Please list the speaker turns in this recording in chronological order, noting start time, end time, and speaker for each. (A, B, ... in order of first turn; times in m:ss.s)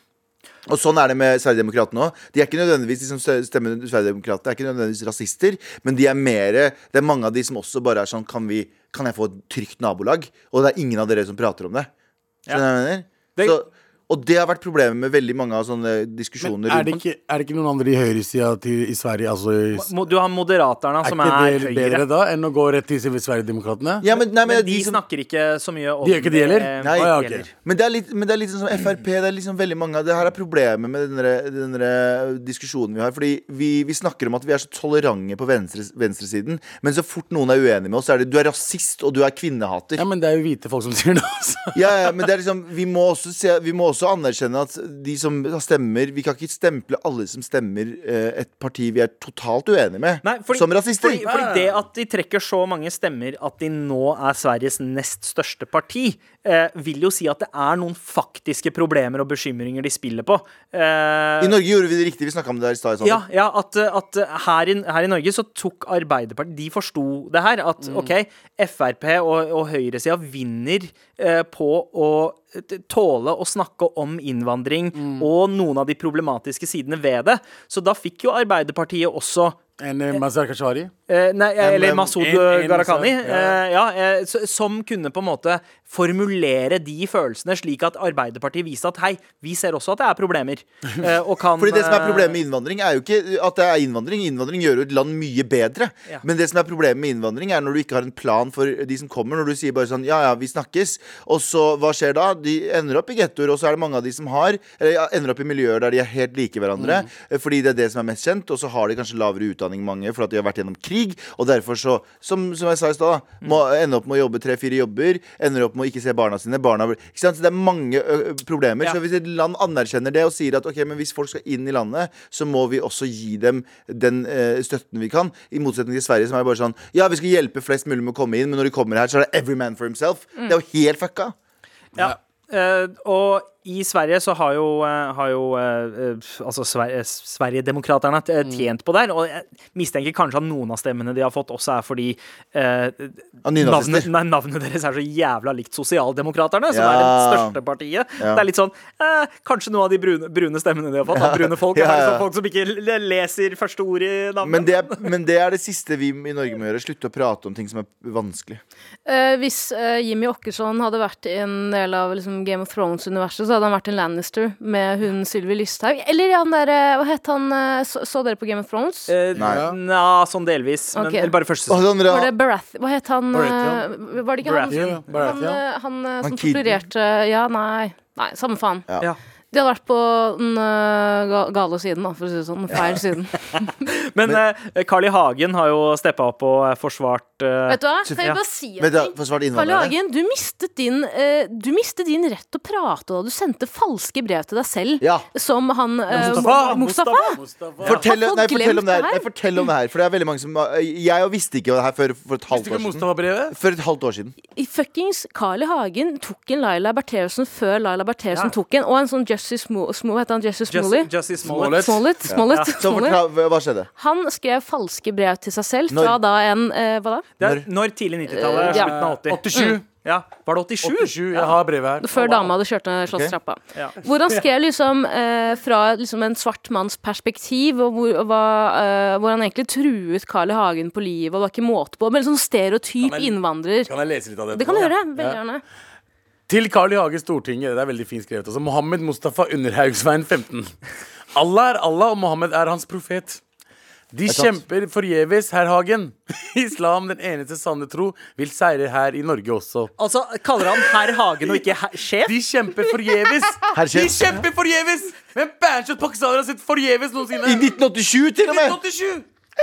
0:00.7-0:11.9 A
0:12.5-0:17.0 A
0:16.4-0:19.9 B
0:19.8-0:22.0 C
0:21.0-0:24.0 B
0:24.0-0:25.0 A
0:24.4-0:27.5 C
0:26.0-0:27.5 B
0:26.8-0:40.0 A
0:40.0-0:41.9 B
0:41.7-0:51.2 A
0:50.2-1:01.6 C
0:51.2-0:51.8 B
1:01.4-1:03.2 A
1:03.0-1:19.6 C
1:07.8-1:08.1 B
1:15.0-1:15.3 B
1:19.8-1:20.9 B
1:21.1-1:32.4 C
1:21.6-1:22.2 A
1:22.2-1:23.6 B
1:31.6-2:11.4 A
1:46.8-1:47.1 B
2:12.0-2:35.1 C
2:23.4-2:24.1 A
2:26.7-2:27.6 A
2:28.2-2:28.5 A
2:31.1-2:32.3 A
2:34.4-2:38.6 A
2:39.1-2:49.2 D
2:49.1-2:51.9 C
2:49.4-2:49.6 A
2:49.4-2:49.8 B
2:51.0-2:51.3 D
2:51.7-2:52.3 A
2:52.1-2:58.9 D
2:53.3-2:53.9 B
2:54.4-2:55.3 C
2:54.7-2:55.6 B
2:56.2-2:56.8 A
2:59.5-3:03.4 D
3:03.6-3:08.4 C
3:07.7-3:17.4 D
3:08.1-3:10.0 A
3:15.0-3:15.3 A
3:16.1-3:16.8 B
3:16.1-3:18.0 C
3:17.4-3:18.0 B
3:17.8-3:24.4 A
3:17.9-3:19.3 D
3:22.5-3:23.6 B
3:24.5-3:31.1 D
3:30.7-3:32.0 C
3:31.4-3:32.0 B
3:31.7-3:33.2 D
3:32.3-3:33.9 A
3:34.0-3:37.3 D
3:35.9-3:36.2 A
3:37.4-3:39.4 C
3:37.4-3:37.7 A
3:38.3-3:38.9 D
3:38.4-3:39.9 B
3:39.5-3:39.8 D
3:40.0-3:41.6 C
3:40.8-3:42.5 B
3:42.0-3:53.9 D
3:43.1-3:43.4 A
3:53.0-3:55.4 B
3:54.5-3:55.6 D
3:56.5-4:00.8 B
4:01.3-4:03.4 B
4:04.1-4:09.9 B
4:04.3-4:04.6 A
4:10.0-4:12.4 C
4:12.2-4:17.7 B
4:13.7-4:14.4 A
4:17.4-4:18.8 A
4:18.4-4:19.3 B